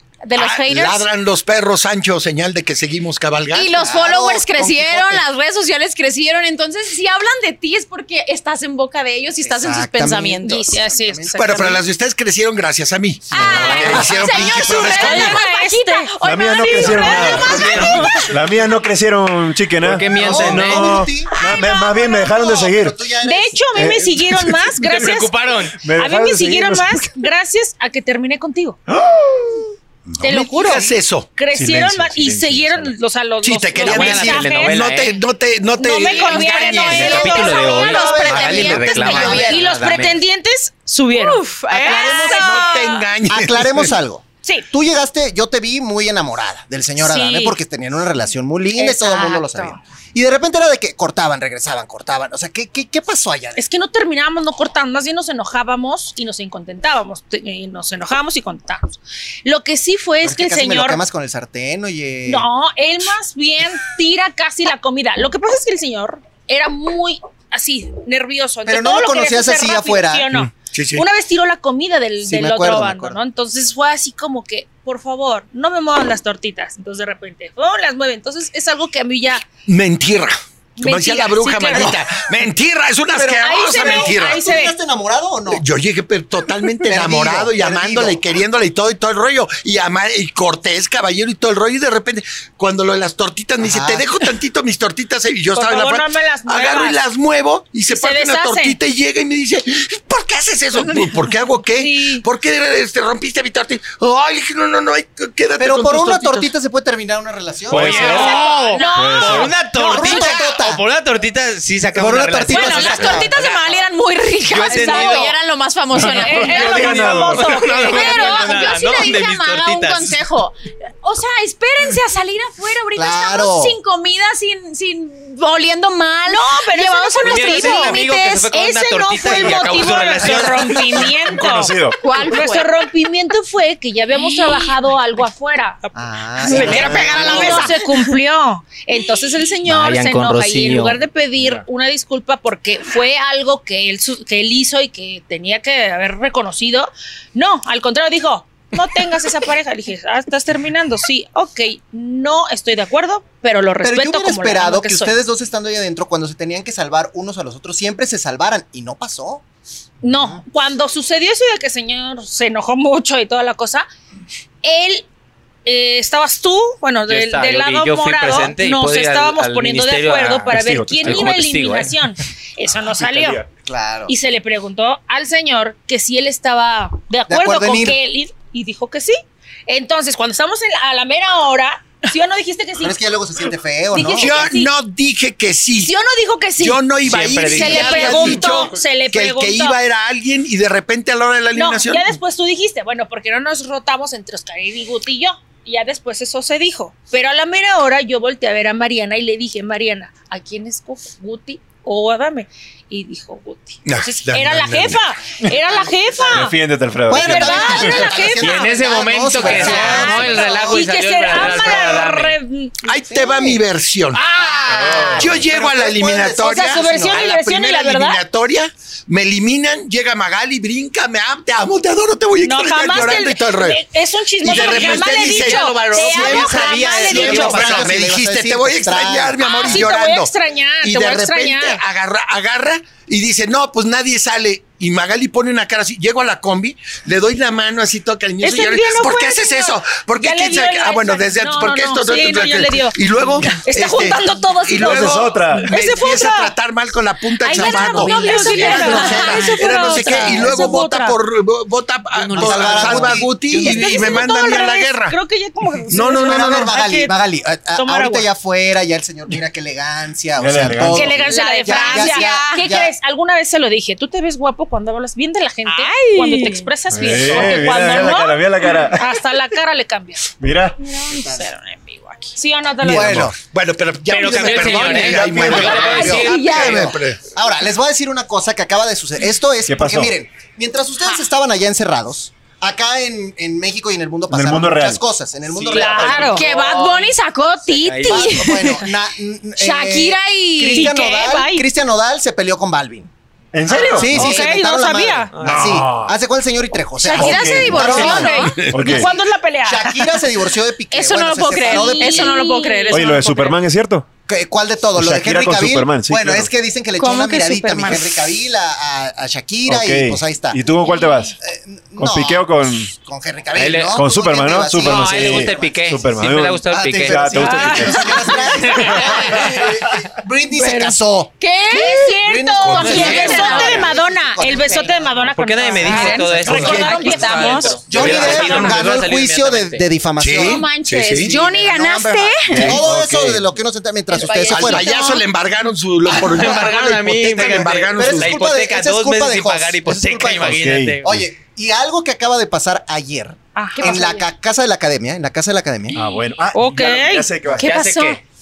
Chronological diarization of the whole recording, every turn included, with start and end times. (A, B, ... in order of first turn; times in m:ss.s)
0:00.2-0:01.0 A
0:00.4-0:03.8 B
0:03.5-0:10.8 A
0:03.7-0:05.2 C
0:09.4-0:11.8 C
0:10.4-0:11.8 D
0:11.4-0:15.4 B
0:13.3-0:18.3 A
0:13.6-0:14.1 E
0:14.3-0:14.8 C
0:14.7-0:18.3 D
0:16.2-0:23.0 F
0:17.3-0:18.2 E
0:19.8-0:21.0 E
0:20.2-0:21.4 C
0:21.4-0:22.7 D
0:22.4-0:23.6 C
0:23.2-0:25.4 D
0:23.7-0:24.8 F
0:24.8-0:25.8 E
0:25.8-0:27.1 F
0:25.9-0:28.8 D
0:28.9-0:29.7 F
0:30.2-0:31.3 B
0:30.2-0:34.9 D
0:31.5-0:33.0 F
0:33.4-0:37.4 B
0:33.7-0:35.2 E
0:35.7-0:43.1 D
0:35.8-0:39.6 A
0:36.8-0:40.2 E
0:37.4-0:39.7 C
0:41.1-0:43.0 A
0:41.7-0:42.6 C
0:42.3-0:43.9 B
0:43.3-0:53.6 C
0:47.0-0:47.6 D
0:48.8-0:49.8 D
0:53.6-1:01.0 D
1:00.2-1:02.5 C
1:02.3-1:19.5 D
1:08.6-1:10.3 C
1:10.3-1:11.0 B
1:12.2-1:13.2 C
1:19.6-1:24.4 B
1:20.8-1:22.0 D
1:23.2-1:25.6 C
1:23.4-1:24.8 D
1:25.5-1:46.5 B
1:26.8-1:28.2 C
1:33.6-1:34.1 C
1:35.5-1:37.0 D
1:37.9-1:38.8 D
1:41.8-1:42.3 D
1:45.6-1:48.2 C
1:47.7-1:48.4 F
1:47.7-1:53.8 E
1:48.0-1:49.2 A
1:48.0-1:50.4 D
1:49.0-1:49.6 F
1:49.8-1:50.8 C
1:50.0-1:50.4 A
1:52.0-1:53.3 C
1:52.5-1:57.0 A
1:54.5-1:55.4 E
1:54.7-1:55.3 D
1:55.9-1:57.6 F
1:56.1-1:58.7 D
1:56.7-2:00.2 E
1:57.7-2:08.5 A
2:03.0-2:03.8 C
2:06.3-2:35.2 D
2:07.2-2:11.1 E
2:10.8-2:12.0 F
2:12.0-2:12.7 A
2:14.2-2:14.7 A
2:16.0-2:17.8 C
2:16.6-2:17.9 A
2:16.7-2:17.0 F
2:19.6-2:21.0 E
2:33.8-2:39.4 C
2:40.0-2:43.9 D
2:40.1-2:40.4 C
2:44.6-2:45.1 D
2:45.6-2:53.4 D
2:47.1-2:52.0 E
2:50.5-2:51.3 F
2:52.9-2:53.4 F
2:53.6-2:54.1 C
2:54.1-3:03.0 D
2:57.3-2:58.0 C
3:02.8-3:04.5 C
3:03.9-3:04.7 D
3:04.2-3:05.9 B
3:05.8-3:06.9 D
3:06.6-3:12.2 B
3:07.0-3:08.6 E
3:07.5-3:09.8 D
3:11.5-3:26.6 D
3:23.8-3:25.0 B
3:25.6-3:26.4 C
3:26.3-3:28.1 F
3:27.1-3:30.8 C
3:27.1-3:28.8 D
3:28.4-3:32.4 E
3:29.4-3:33.0 D
3:29.5-3:29.8 B
3:31.3-3:31.9 C
3:32.8-3:34.3 B
3:33.1-3:33.4 C
3:34.2-3:35.0 D
3:34.2-3:37.3 C
3:34.7-3:35.3 E
3:34.7-3:35.4 F
3:35.0-3:43.8 B
3:36.4-3:38.2 D
3:42.4-3:47.8 D
3:44.4-4:15.2 B
3:44.5-3:47.9 E
3:44.5-3:45.0 C
3:45.9-3:49.8 C
3:49.4-3:51.8 D
3:58.4-4:06.6 D
4:04.8-4:05.7 F
4:07.4-4:11.2 D
4:07.5-4:09.9 A
4:08.4-4:10.4 C
4:12.1-4:13.2 E
4:12.4-4:14.3 C
4:13.5-4:17.2 D
4:15.9-4:16.7 B
4:16.0-4:22.9 C
4:17.7-4:18.3 D
4:20.4-4:21.2 F
4:20.8-4:30.3 D
4:21.3-4:22.6 A
4:25.6-4:26.7 A
4:26.9-4:29.3 F
4:30.4-4:30.8 F
4:30.8-4:32.4 A
4:31.1-4:31.5 C
4:32.4-4:33.3 D
4:32.8-4:33.3 F
4:32.8-4:33.4 C
4:33.3-4:37.2 B
4:34.1-4:36.9 E
4:34.2-4:36.8 D
4:34.9-4:46.5 C
4:35.1-4:35.8 F
4:36.1-4:36.7 A
4:39.7-4:40.2 F
4:44.3-4:45.0 F
4:45.5-4:47.1 E
4:45.7-4:46.5 D
4:46.0-4:48.9 A
4:47.7-4:48.4 E
4:48.0-4:53.1 C
4:49.6-4:51.0 A
4:50.7-4:51.7 D
4:53.5-4:54.4 F
4:53.7-4:55.4 D
4:53.7-4:59.1 C
4:55.3-4:55.7 E
4:55.4-4:56.1 F
4:55.5-4:56.1 B
4:57.0-4:58.6 A
4:57.2-5:00.2 D
4:57.2-4:59.1 F
4:58.5-4:58.9 B
4:59.6-5:02.4 C
5:00.9-5:03.5 A
5:01.6-5:03.5 D
5:02.9-5:04.1 F
5:04.3-5:10.7 C
5:05.0-5:06.5 F
5:07.0-5:08.1 A
5:09.7-5:11.4 F
5:11.4-5:16.0 C
5:12.0-5:12.9 F
5:13.6-5:14.0 E
5:13.9-5:18.3 F
5:14.8-5:17.8 E
5:16.7-5:25.3 C
5:17.4-5:19.5 D
5:18.5-5:19.6 E
5:20.5-5:21.0 D
5:21.4-5:22.1 A
5:21.7-5:27.9 D
5:22.7-5:23.2 B
5:22.7-5:23.8 E
5:22.8-5:23.9 A
5:24.5-5:24.9 A
5:25.3-5:29.8 E
5:25.8-5:26.7 C
5:25.8-5:27.8 A
5:26.4-5:27.2 B
5:27.9-5:35.1 C
5:27.9-5:28.9 B
5:30.2-5:31.4 B
5:30.3-5:32.8 A
5:32.5-5:33.6 F
5:34.1-5:35.2 A
5:34.4-5:38.4 B
5:36.1-5:36.7 C
5:36.1-5:41.2 E
5:37.3-5:46.0 C
5:40.4-5:41.0 F
5:43.6-5:44.1 D
5:43.7-5:44.2 A
5:45.9-5:47.7 F
5:46.5-5:47.3 D
5:47.6-5:48.2 E
5:47.6-5:48.2 A